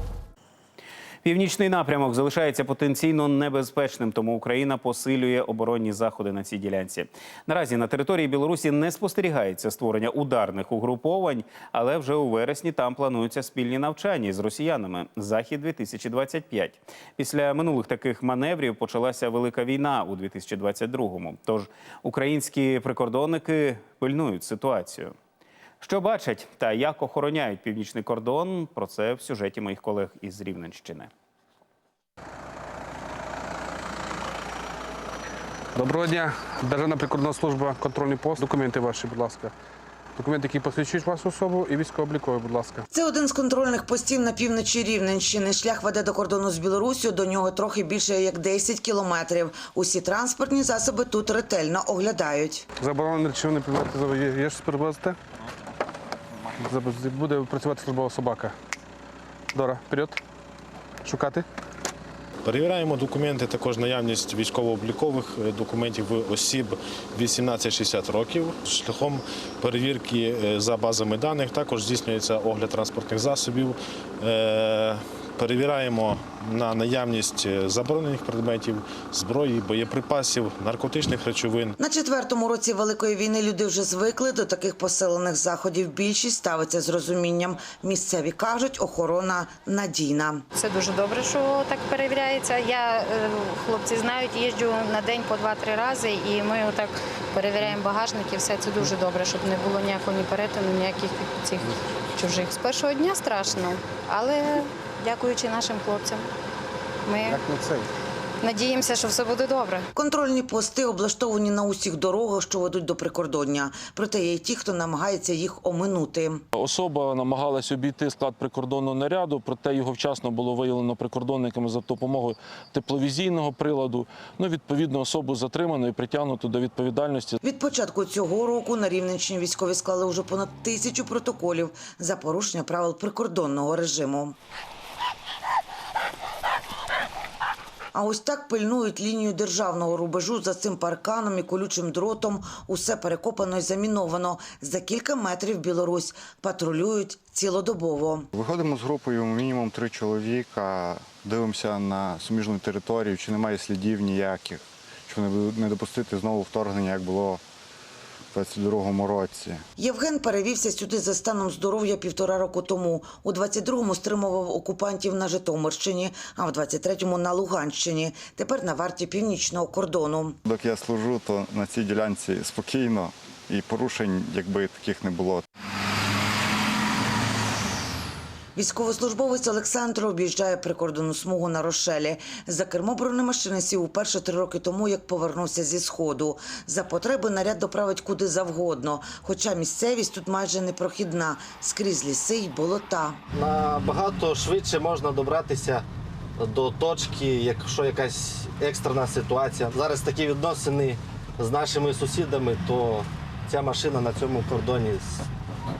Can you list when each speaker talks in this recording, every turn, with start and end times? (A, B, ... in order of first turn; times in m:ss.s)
0:01.2-0:25.1 A
0:25.8-0:31.1 A
0:35.8-0:39.5 B
0:40.2-0:42.8 B
0:42.9-0:52.6 C
0:52.8-0:55.1 B
0:56.6-0:58.5 B
0:59.6-1:00.2 B
1:01.1-1:01.4 B
1:02.4-1:21.8 D
1:21.8-1:30.4 C
1:30.6-1:46.3 E
1:47.0-1:47.4 E
1:48.4-1:49.8 E
1:49.9-1:56.4 C
1:56.5-2:07.4 F
2:07.4-2:14.4 C
2:17.9-2:28.3 C
2:28.3-2:37.4 G
2:38.3-2:39.6 G
2:39.8-2:50.4 C
2:50.4-2:55.4 G
2:58.6-3:13.2 C
3:13.3-3:15.9 H
3:16.4-3:25.3 H